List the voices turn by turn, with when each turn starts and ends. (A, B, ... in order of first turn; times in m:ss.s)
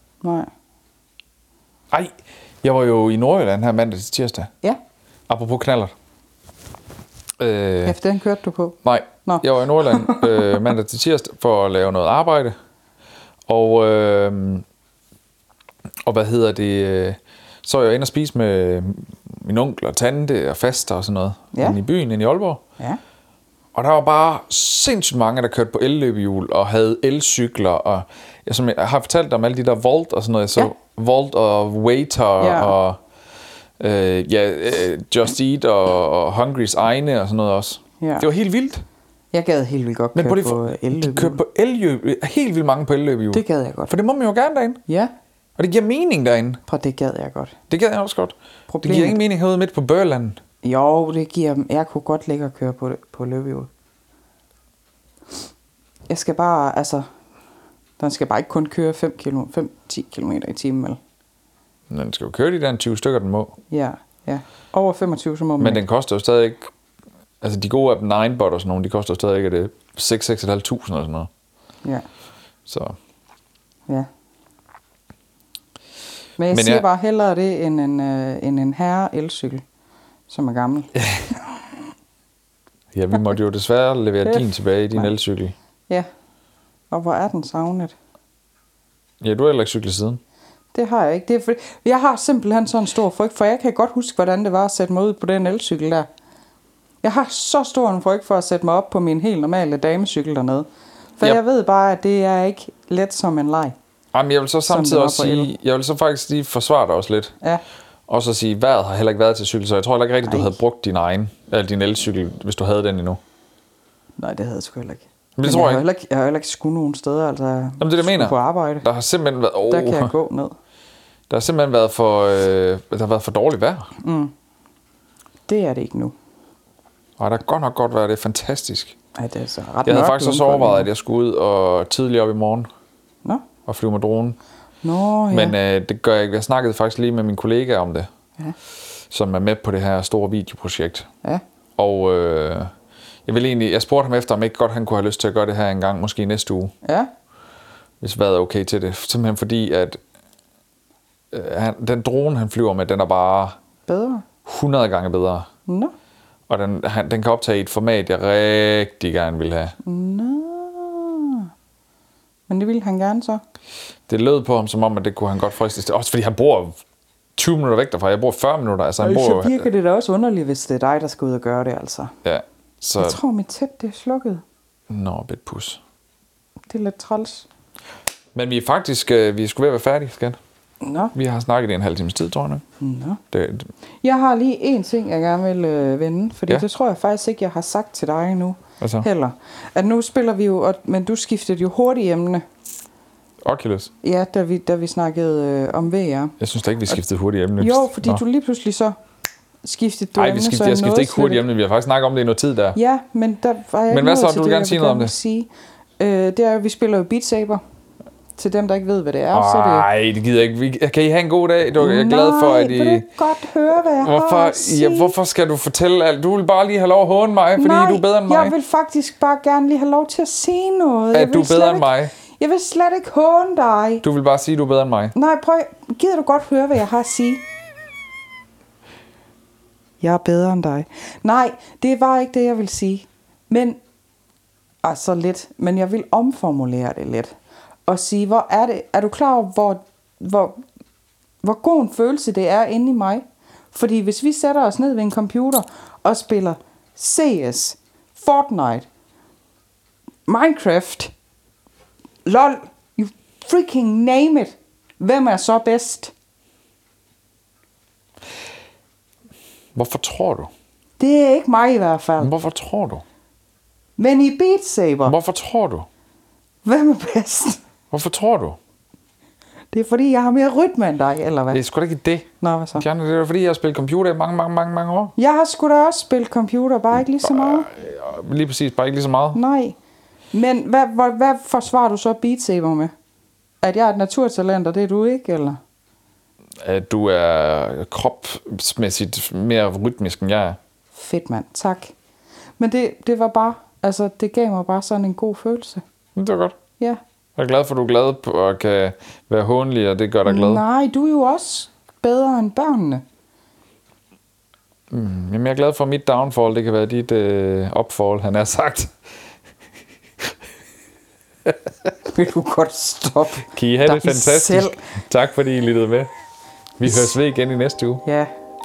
0:00.2-0:00.5 A
0:01.9-0:04.5 B
0:05.3-0:05.9 B
0:07.4-0:08.0 B
0:07.8-0:10.6 A
0:08.8-0:12.6 B
0:13.5-0:14.6 B
0:16.0-0:22.6 B
0:23.7-0:33.0 B
0:32.4-0:32.7 A
0:33.8-0:38.8 B
0:38.0-0:38.3 A
0:39.3-0:41.4 A
0:40.1-0:44.8 B
0:43.3-0:43.9 A
0:44.9-0:45.1 A
0:45.6-0:46.6 B
0:46.7-0:47.5 A
0:47.7-0:50.4 B
0:48.7-0:49.2 A
0:50.6-0:53.7 A
0:56.1-0:57.1 A
0:58.0-1:01.0 A
1:01.9-1:03.6 B
1:03.7-1:05.8 A
1:05.6-1:06.7 B
1:07.4-1:11.3 B
1:12.7-1:13.0 B
1:16.4-1:19.6 A
1:16.5-1:16.8 B
1:20.3-1:20.9 A
1:22.9-1:25.5 B
1:26.9-1:27.9 A
1:29.2-1:30.2 B
1:30.7-1:36.1 A
1:37.0-1:40.7 A
1:41.2-1:43.7 A
1:44.1-1:47.3 B
1:44.7-1:45.5 A
1:48.1-1:53.2 B
1:50.2-1:50.5 A
1:54.2-1:58.8 A
1:55.4-1:55.8 B
1:57.8-2:00.1 B
1:59.7-2:00.5 A
2:01.3-2:03.9 B
2:04.0-2:04.3 A
2:05.5-2:06.1 A
2:07.2-2:08.9 B
2:09.2-2:10.9 A
2:09.8-2:12.7 B
2:13.7-2:14.4 B
2:14.8-2:15.6 A
2:15.3-2:18.1 B
2:19.1-2:21.1 B
2:21.8-2:22.7 B
2:23.2-2:26.7 B
2:26.8-2:27.1 A
2:28.0-2:30.0 B
2:31.3-2:33.6 B
2:33.8-2:34.2 A
2:34.4-2:35.5 B
2:35.7-2:35.9 A
2:36.5-2:39.8 B
2:39.8-2:41.5 A
2:42.5-2:43.4 A
2:44.1-2:46.8 B
2:47.4-2:49.6 B
2:49.0-2:52.1 A
2:52.2-2:53.2 B
2:53.0-2:54.4 A
2:54.9-2:55.8 B
2:56.7-2:57.5 A
2:58.3-3:00.4 B
3:00.8-3:01.1 A
3:01.1-3:02.6 B
3:02.8-3:03.2 A
3:03.3-3:03.7 B
3:04.0-3:12.4 A
3:08.8-3:09.1 B
3:13.4-3:13.9 B
3:14.0-3:16.3 A
3:16.4-3:18.2 B
3:17.6-3:19.0 A
3:19.6-3:21.4 A
3:20.2-3:22.8 B
3:22.7-3:25.5 A
3:23.9-3:25.1 B
3:26.0-3:27.6 A
3:28.4-3:29.9 A
3:29.3-3:33.1 B
3:31.8-3:35.1 A
3:33.8-3:38.5 B
3:37.6-3:44.0 A
3:41.1-3:42.1 B
3:44.0-3:45.1 B
3:45.1-3:47.4 A
3:50.0-3:53.8 A
3:54.8-3:57.3 A
3:57.9-4:00.6 A
4:01.4-4:08.9 A
4:10.3-4:11.1 A
4:12.2-4:16.1 A
4:19.7-4:20.5 B
4:21.0-4:22.3 A
4:22.2-4:23.0 B
4:24.0-4:25.1 A
4:25.1-4:25.9 B
4:26.6-4:27.6 A
4:27.9-4:28.6 B
4:29.7-4:31.6 A
4:31.5-4:35.1 B
4:32.4-4:32.8 A
4:35.2-4:37.7 A
4:37.2-4:39.4 B
4:39.3-4:39.8 A
4:40.3-4:42.9 A
4:43.6-4:45.6 A
4:46.6-4:50.6 B
4:50.9-4:51.9 A
4:52.6-4:55.8 A
4:56.2-4:56.6 B
4:57.4-5:00.6 B
5:00.2-5:03.0 A
5:04.9-5:08.9 B
5:11.4-5:11.9 B
5:12.0-5:14.8 A
5:13.5-5:16.1 B
5:16.8-5:18.0 B
5:18.0-5:18.3 A